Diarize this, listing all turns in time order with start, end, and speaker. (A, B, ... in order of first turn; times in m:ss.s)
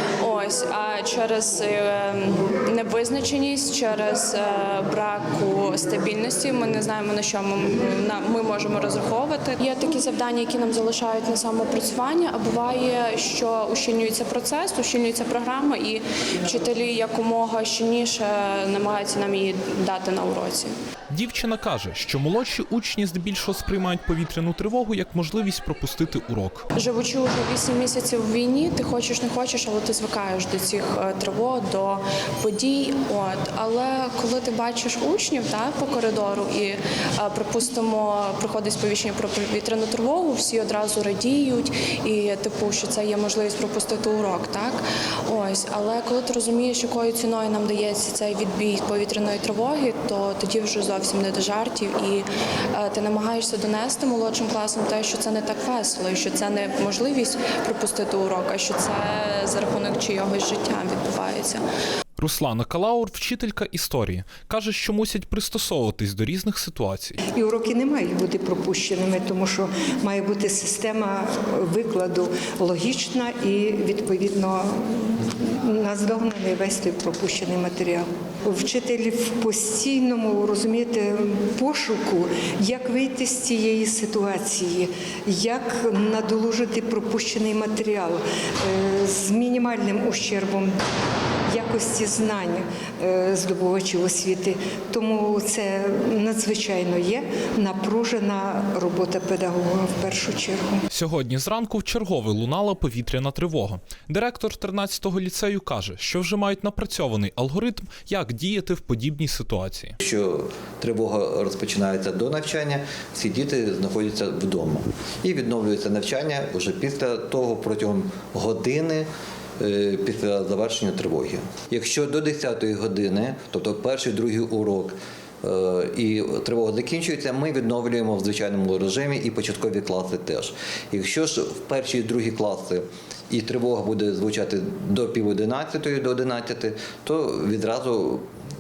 0:00.2-0:20.7 A
0:21.1-0:26.7 B
0:26.8-1:01.6 A
1:02.2-1:07.2 B
1:07.3-1:30.8 C
1:31.5-1:40.8 C
1:40.9-1:50.0 B
1:50.0-1:59.1 D
1:59.6-2:18.2 D